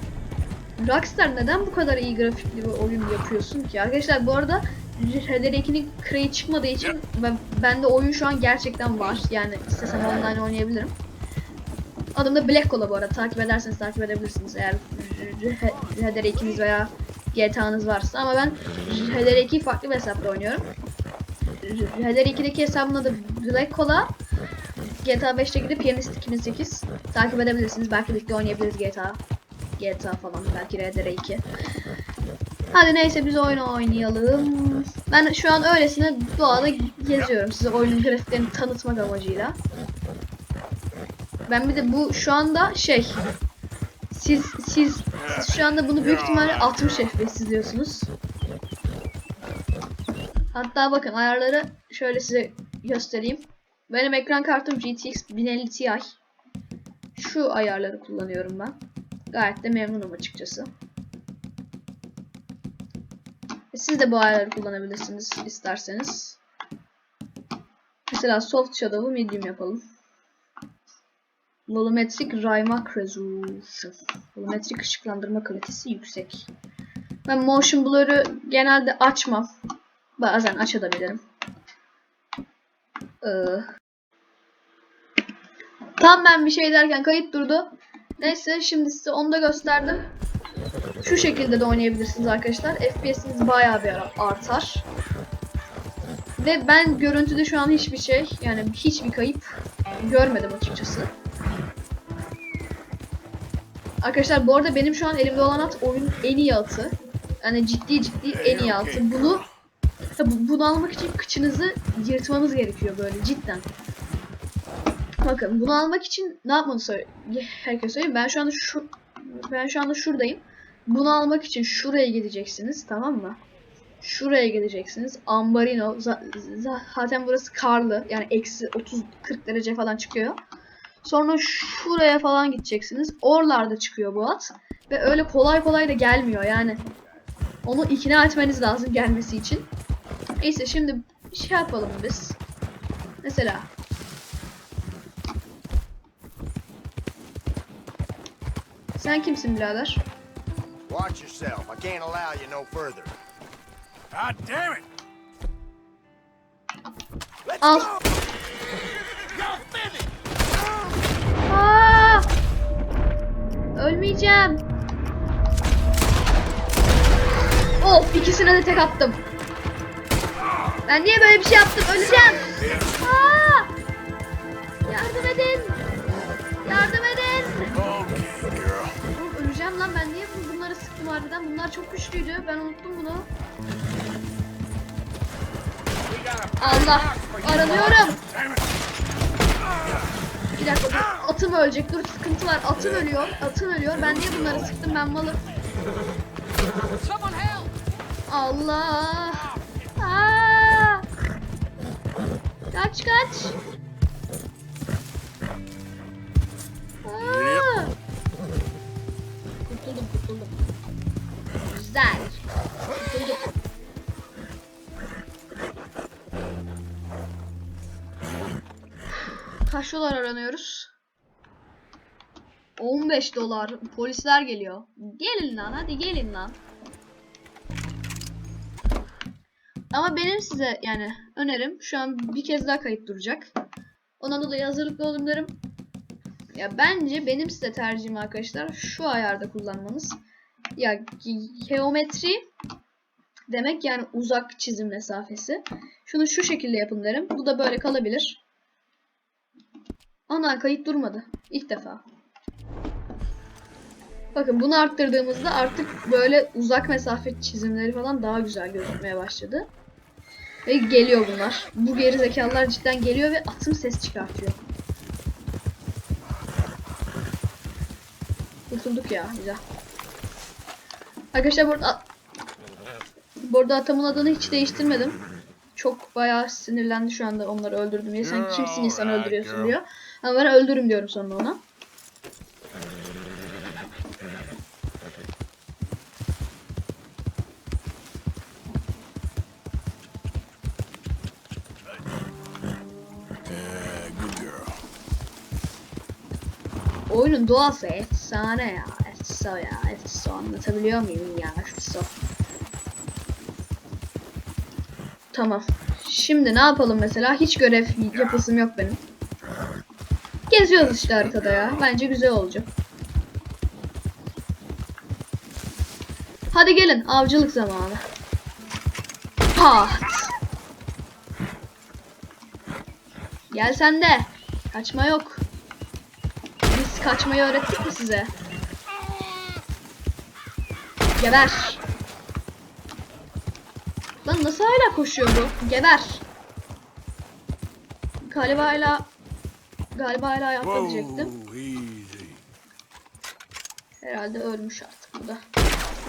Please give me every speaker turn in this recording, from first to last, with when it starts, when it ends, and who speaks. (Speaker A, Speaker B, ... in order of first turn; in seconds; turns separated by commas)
Speaker A: 0.8-11.0, Speaker A: 12.2-20.7, Speaker A: 21.6-24.1, Speaker A: 25.0-29.2, Speaker A: 29.8-31.4, Speaker A: 32.7-39.6, Speaker A: 41.5-43.2, Speaker A: 44.1-48.1, Speaker B: 45.2-47.1, Speaker A: 50.5-56.1, Speaker A: 57.1-58.8, Speaker A: 59.3-60.7, Speaker A: 63.7-66.4, Speaker A: 68.1-69.8, Speaker A: 71.7-76.5, Speaker A: 77.3-79.5, Speaker A: 80.2-81.2, Speaker A: 83.2-83.7, Speaker A: 86.0-90.1, Speaker A: 91.0-94.9, Speaker A: 96.4-101.1, Speaker A: 104.0-109.5, Speaker B: 108.3-109.5, Speaker A: 110.2-113.7, Speaker A: 115.2-123.4, Speaker A: 124.0-130.4, Speaker A: 131.0-136.8, Speaker A: 137.7-139.7, Speaker A: 140.4-142.4, Speaker A: 143.2-143.7, Speaker A: 149.0-150.0, Speaker C: 150.9-153.2, Speaker B: 154.1-154.9, Speaker C: 157.5-157.9, Speaker A: 157.6-157.9, Speaker A: 161.5-162.3, Speaker A: 163.8-164.7, Speaker A: 167.8-169.3, Speaker A: 170.9-173.7, Speaker B: 172.2-173.0, Speaker A: 174.9-175.8, Speaker A: 176.6-177.8, Speaker B: 177.7-179.0, Speaker A: 179.1-183.3, Speaker A: 186.6-188.2, Speaker B: 188.3-188.6, Speaker A: 190.5-195.4, Speaker B: 192.8-193.4, Speaker B: 193.9-194.8, Speaker B: 197.1-197.7, Speaker A: 198.3-201.0, Speaker A: 202.7-203.6, Speaker A: 207.0-207.9, Speaker B: 207.2-207.7, Speaker A: 209.6-210.6, Speaker A: 211.6-213.5, Speaker A: 219.7-220.9, Speaker A: 222.8-226.6, Speaker A: 229.9-233.5, Speaker A: 234.2-235.6, Speaker A: 236.5-240.2, Speaker A: 240.8-242.5, Speaker A: 243.5-248.4, Speaker A: 250.3-252.0, Speaker A: 254.3-259.7, Speaker A: 260.7-264.6, Speaker A: 268.7-269.6, Speaker A: 271.3-272.1, Speaker A: 273.4-275.2, Speaker A: 275.8-281.6, Speaker B: 278.2-279.8, Speaker B: 293.4-294.8, Speaker A: 297.1-302.1, Speaker A: 305.3-309.0, Speaker B: 308.1-308.4, Speaker A: 310.5-312.7, Speaker B: 310.7-311.9, Speaker A: 316.5-318.1, Speaker A: 319.6-320.3, Speaker A: 323.5-325.4, Speaker A: 326.7-328.3, Speaker A: 331.2-331.8, Speaker A: 334.2-336.2, Speaker A: 338.2-339.1, Speaker A: 339.9-341.3, Speaker B: 340.6-342.4, Speaker A: 344.0-345.4